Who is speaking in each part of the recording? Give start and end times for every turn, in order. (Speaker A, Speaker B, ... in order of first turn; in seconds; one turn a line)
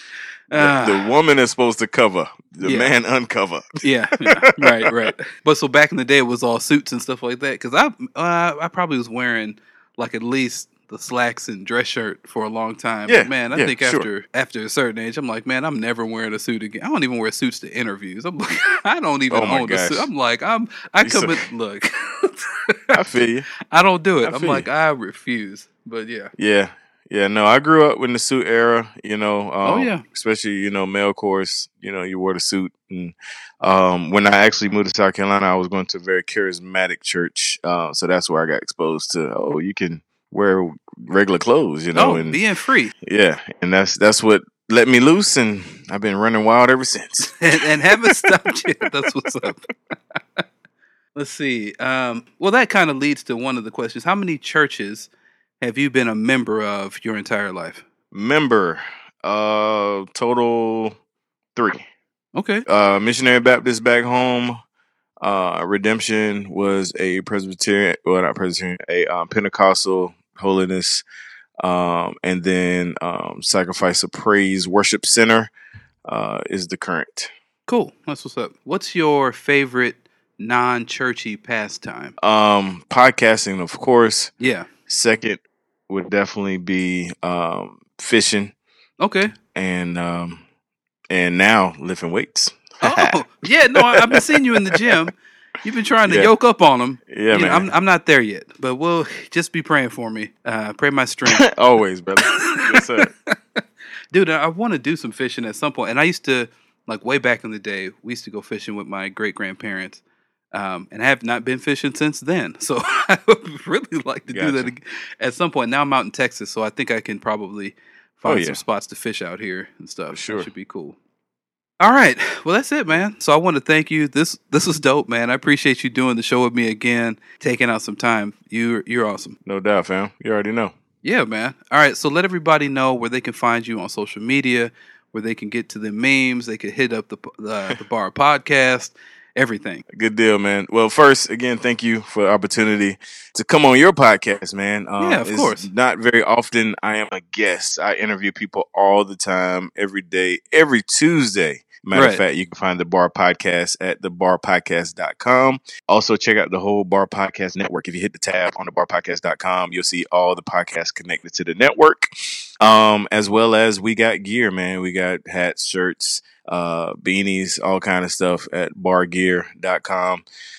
Speaker A: 0.5-1.1
Speaker B: 0.5-5.1
Speaker A: 2.6-2.9
Speaker A: 3.8-23.0
Speaker B: 13.1-14.1
Speaker B: 19.3-20.1
Speaker B: 21.0-21.4
Speaker B: 22.9-23.5
Speaker A: 23.7-26.3
Speaker B: 24.2-24.7
Speaker B: 26.4-42.4
Speaker A: 29.6-30.0
Speaker A: 41.9-42.9
Speaker B: 43.0-48.3
Speaker A: 47.4-50.4
Speaker A: 51.1-55.1
Speaker A: 55.6-57.8
Speaker B: 58.1-61.0
Speaker B: 61.5-61.9
Speaker A: 62.3-62.6
Speaker B: 62.7-64.6
Speaker B: 65.2-71.0
Speaker B: 71.6-75.5
Speaker B: 76.0-77.3
Speaker A: 77.7-82.2
Speaker B: 82.2-84.3
Speaker A: 84.4-84.7
Speaker B: 84.9-88.5
Speaker A: 89.0-89.3
Speaker B: 89.5-90.4
Speaker B: 91.1-93.2
Speaker A: 92.8-101.5
Speaker B: 93.8-94.9
Speaker B: 97.1-97.7
Speaker B: 101.3-103.1
Speaker A: 102.2-103.6
Speaker A: 104.1-110.0
Speaker A: 110.5-121.0
Speaker B: 114.3-114.7
Speaker B: 118.2-118.6
Speaker B: 120.1-120.5
Speaker A: 121.8-129.4
Speaker B: 129.4-130.7
Speaker A: 131.0-139.8
Speaker B: 139.9-170.2
Speaker A: 145.0-145.7
Speaker A: 151.9-152.2